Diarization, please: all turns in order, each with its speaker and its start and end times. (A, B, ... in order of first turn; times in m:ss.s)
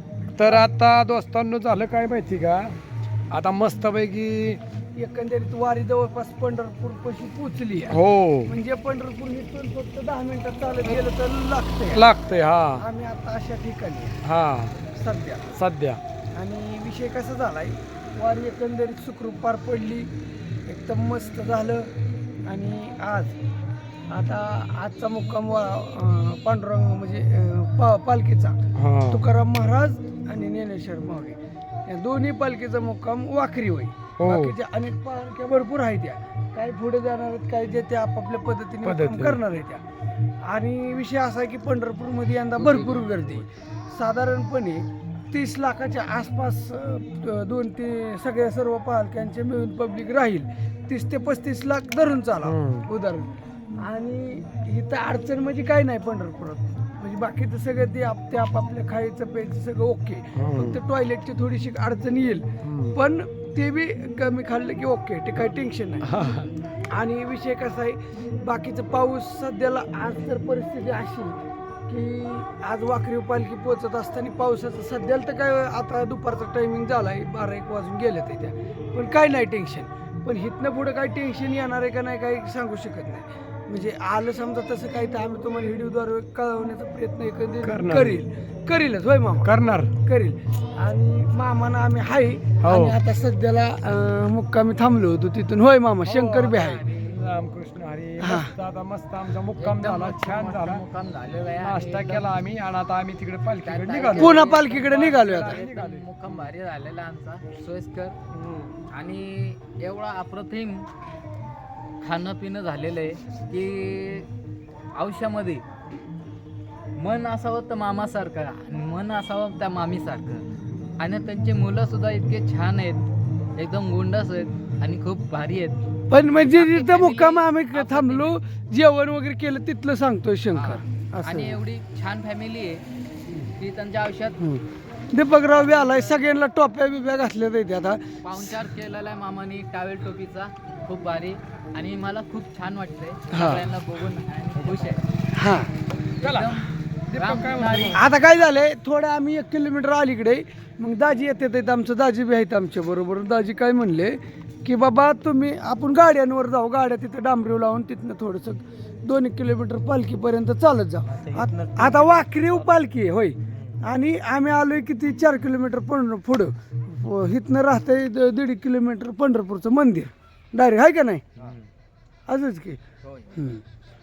0:00.4-0:02.8 A
0:00.4-0:00.7 B
0:03.3-0:04.6 A
0:05.0-0:12.1 B
0:07.9-0:08.6 A
0:11.9-0:12.8 A
0:12.8-0:14.2 B
0:14.2-0:14.7 A
0:14.9-0:15.6 B
0:15.6-0:16.0 A
0:16.4-0:20.1 B
0:20.7-0:21.9 B
0:22.5-0:23.4 B
0:24.1-0:28.6 B
0:28.8-0:29.3 A
0:29.1-0:39.8 B
0:34.2-0:34.6 A
0:38.8-0:39.4 A
0:40.4-1:06.4 B
0:42.6-0:43.2 C
0:52.4-0:52.9 A
1:00.4-1:00.8 A
1:02.6-1:03.0 A
1:06.0-1:06.5 A
1:06.9-1:36.8 B
1:27.6-1:28.2 A
1:29.4-1:29.9 A
1:32.6-1:33.0 A
1:36.0-1:40.8 A
1:36.6-1:37.1 C
1:38.2-1:38.5 B
1:39.6-1:42.3 C
1:41.6-1:44.4 A
1:43.6-1:48.2 C
1:44.2-1:45.6 B
1:45.0-1:46.1 A
1:48.3-1:48.7 A
1:48.9-1:50.9 C
1:52.0-1:54.3 C
1:55.0-1:55.6 C
1:57.0-2:00.4 C
2:01.0-2:05.8 C
2:06.1-2:11.6 B
2:06.5-2:08.4 C
2:10.5-2:12.8 C
2:13.6-2:14.4 C
2:14.4-2:18.6 B
2:18.2-2:25.0 C
2:23.3-2:23.7 B
2:24.6-2:25.0 A
2:25.4-2:25.7 B
2:26.2-2:28.0 A
2:26.2-2:28.0 C
2:27.9-2:51.3 B
2:51.4-2:51.7 C
2:52.3-2:52.8 B
2:53.3-2:53.6 B